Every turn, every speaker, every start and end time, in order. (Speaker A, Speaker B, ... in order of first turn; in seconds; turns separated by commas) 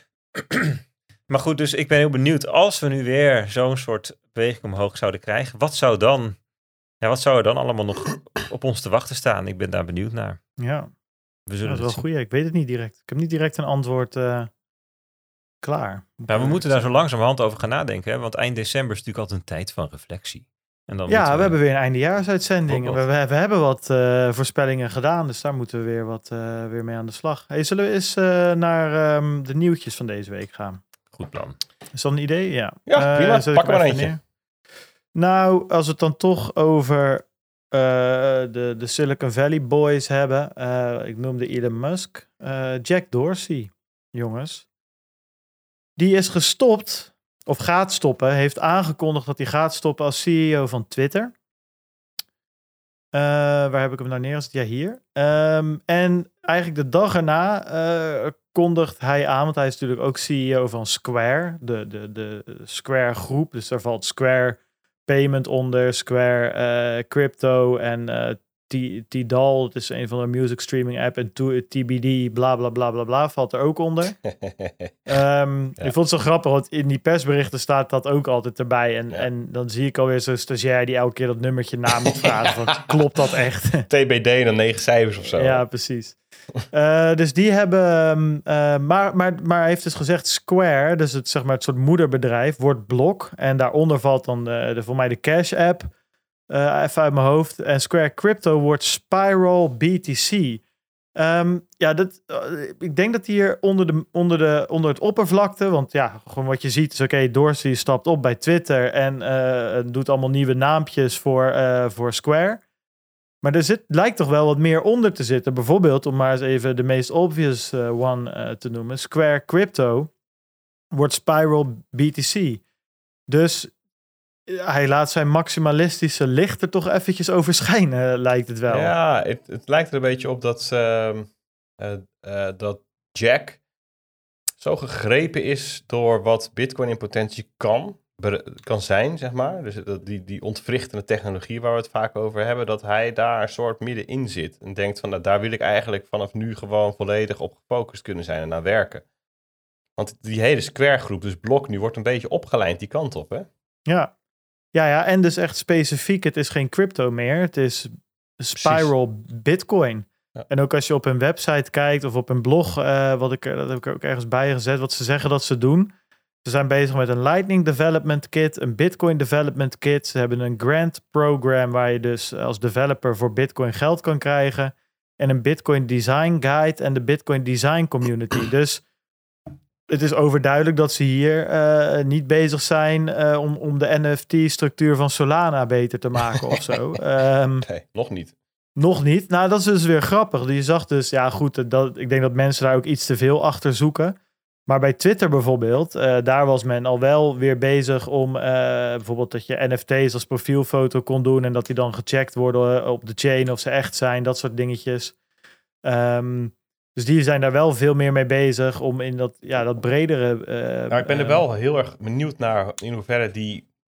Speaker A: 0.3-6.4, Speaker A: 7.0-10.4, Speaker B: 10.6-10.9, Speaker A: 11.5-12.0, Speaker B: 11.6-14.5, Speaker B: 15.6-17.0, Speaker A: 16.3-21.6, Speaker B: 21.1-30.8, Speaker A: 22.7-23.0, Speaker A: 31.1-31.6, Speaker B: 31.9-34.2, Speaker C: 32.9-34.1, Speaker B: 35.1-44.6, Speaker B: 46.0-51.3, Speaker B: 53.1-74.2, Speaker C: 74.2-74.9, Speaker B: 75.1-83.8, Speaker C: 83.9-85.6, Speaker B: 85.4-86.2, Speaker B: 86.7-95.9, Speaker B: 96.5-100.6, Speaker B: 101.2-112.6, Speaker B: 113.4-120.1, Speaker B: 120.9-122.6, Speaker B: 123.3-123.7, Speaker B: 124.5-128.9, Speaker C: 128.7-133.6, Speaker C: 134.6-149.0, Speaker C: 150.0-153.5, Speaker B: 153.9-154.1, Speaker B: 154.7-165.9, Speaker C: 158.6-158.9, Speaker B: 166.4-178.8, Speaker B: 179.9-187.7, Speaker C: 187.6-188.3, Speaker B: 188.8-205.1, Speaker B: 205.8-211.4, Speaker C: 210.9-213.7